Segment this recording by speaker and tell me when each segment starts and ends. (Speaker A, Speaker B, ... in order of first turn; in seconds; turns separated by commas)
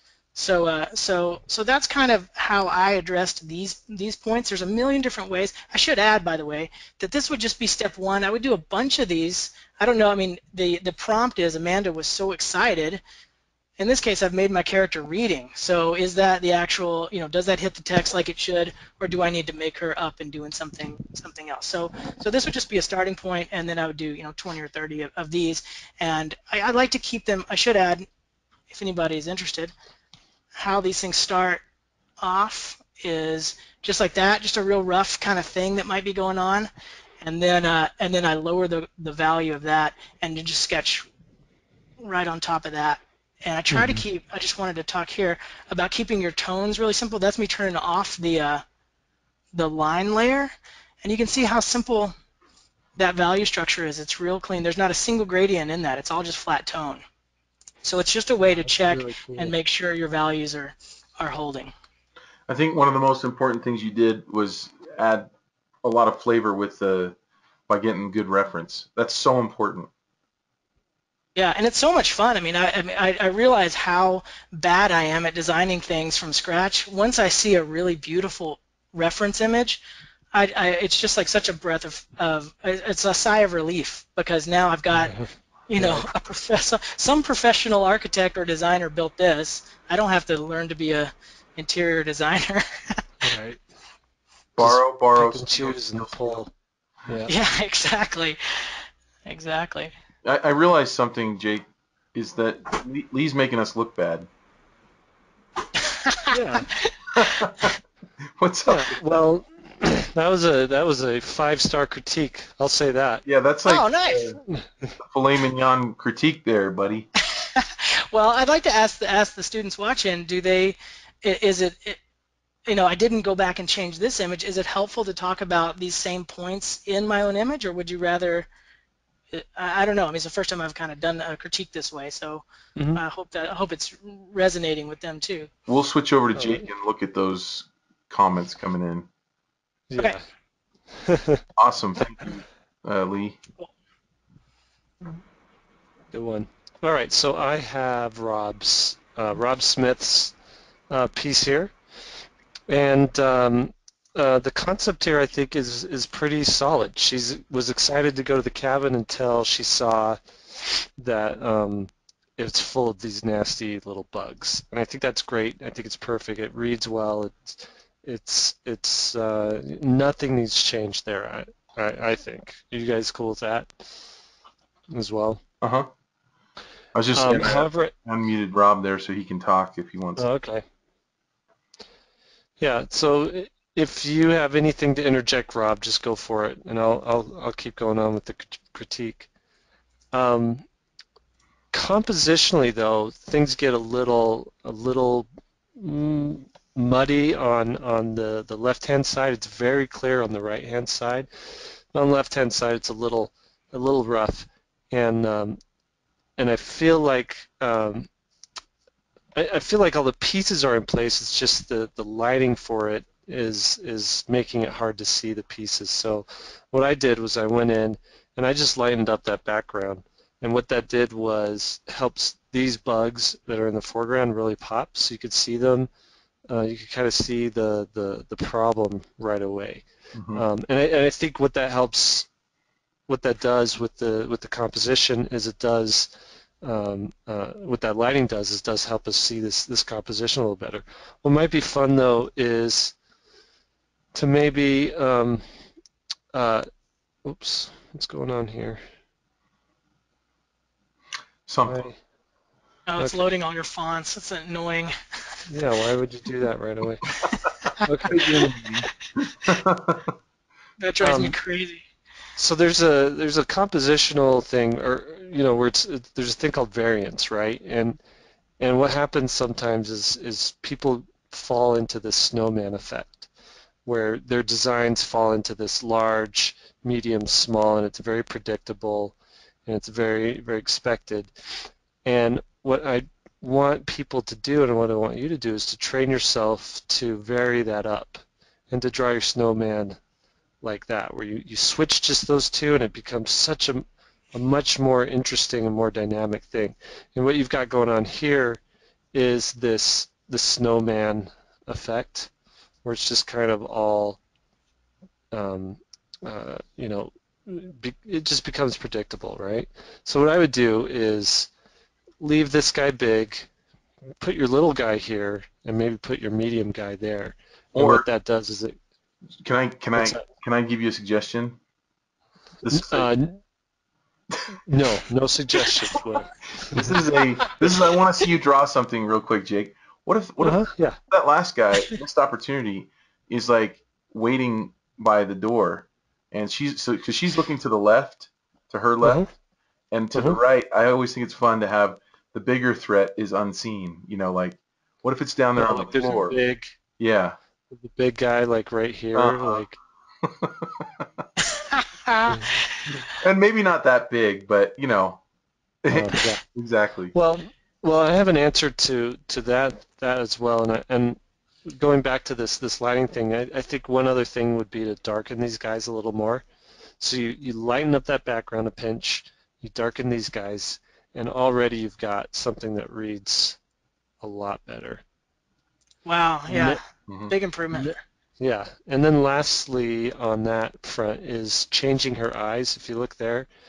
Speaker A: 0.3-13.0, Speaker A: 13.8-28.1, Speaker A: 28.7-29.7, Speaker A: 30.6-31.6, Speaker A: 32.2-36.7, Speaker A: 37.2-41.1, Speaker A: 42.0-48.6, Speaker B: 43.7-44.0, Speaker A: 49.5-50.5, Speaker A: 51.0-52.1, Speaker A: 53.0-57.0, Speaker A: 57.8-61.7, Speaker B: 58.6-59.5, Speaker C: 62.5-65.3, Speaker C: 65.8-67.2, Speaker C: 67.7-69.9, Speaker A: 71.4-79.8, Speaker A: 80.3-85.1, Speaker B: 84.9-86.1, Speaker A: 85.7-93.0, Speaker B: 93.2-93.6, Speaker C: 94.6-96.4, Speaker B: 94.6-96.5, Speaker B: 97.1-97.3, Speaker A: 97.3-99.9, Speaker C: 100.2-104.3, Speaker A: 106.0-107.2, Speaker B: 106.3-106.7, Speaker C: 107.2-107.8, Speaker C: 108.4-109.2, Speaker B: 108.7-113.2, Speaker C: 113.2-114.4, Speaker A: 113.7-114.2, Speaker B: 114.5-114.9, Speaker C: 115.0-117.1, Speaker A: 117.3-122.0, Speaker A: 122.7-128.5, Speaker A: 129.3-132.4, Speaker B: 132.8-133.0, Speaker A: 132.9-135.5, Speaker C: 135.7-139.1, Speaker B: 136.4-136.7, Speaker B: 139.9-140.2, Speaker B: 140.9-141.4, Speaker C: 141.6-143.4, Speaker B: 146.1-150.3, Speaker B: 150.9-151.7, Speaker B: 152.7-173.9, Speaker B: 174.9-175.4, Speaker C: 175.6-175.9, Speaker C: 176.9-180.3, Speaker B: 177.2-177.9, Speaker B: 180.2-180.6, Speaker B: 182.6-189.3, Speaker B: 190.1-190.7, Speaker B: 191.7-201.3, Speaker B: 201.9-205.6, Speaker B: 206.4-208.1, Speaker B: 209.3-225.9, Speaker B: 226.5-232.3, Speaker C: 230.1-230.4, Speaker B: 233.1-236.1, Speaker B: 236.6-242.9, Speaker B: 244.1-245.4, Speaker B: 246.3-246.7, Speaker B: 247.2-248.8, Speaker C: 251.5-251.9, Speaker B: 251.7-252.0, Speaker A: 252.9-254.9, Speaker B: 253.0-253.2, Speaker B: 255.5-257.1, Speaker B: 257.8-258.7, Speaker C: 258.1-260.1, Speaker A: 260.8-261.8, Speaker B: 261.0-261.4, Speaker B: 262.4-268.0, Speaker B: 268.6-273.3, Speaker B: 273.9-279.1, Speaker B: 279.7-281.3, Speaker B: 282.1-290.0, Speaker B: 290.6-298.6, Speaker B: 299.1-302.3, Speaker B: 302.8-304.2, Speaker B: 305.3-311.5, Speaker B: 312.2-313.5, Speaker B: 314.2-318.8, Speaker C: 317.8-318.1, Speaker C: 319.4-321.6, Speaker B: 320.0-320.2, Speaker C: 322.6-323.1, Speaker B: 322.7-323.4, Speaker B: 324.7-327.0, Speaker C: 326.7-339.2, Speaker B: 330.4-331.0, Speaker B: 339.0-339.3, Speaker C: 339.9-346.4, Speaker B: 345.6-346.7, Speaker C: 347.0-347.4, Speaker B: 347.7-349.8, Speaker C: 349.1-349.6, Speaker C: 350.2-351.2, Speaker A: 351.8-352.3, Speaker B: 352.3-352.6, Speaker C: 353.1-355.2, Speaker C: 355.8-357.1, Speaker B: 355.9-356.4, Speaker B: 357.1-366.4, Speaker B: 367.0-373.6, Speaker B: 374.2-375.0, Speaker A: 376.1-377.9, Speaker B: 376.5-376.8, Speaker C: 377.1-377.3, Speaker B: 377.7-383.5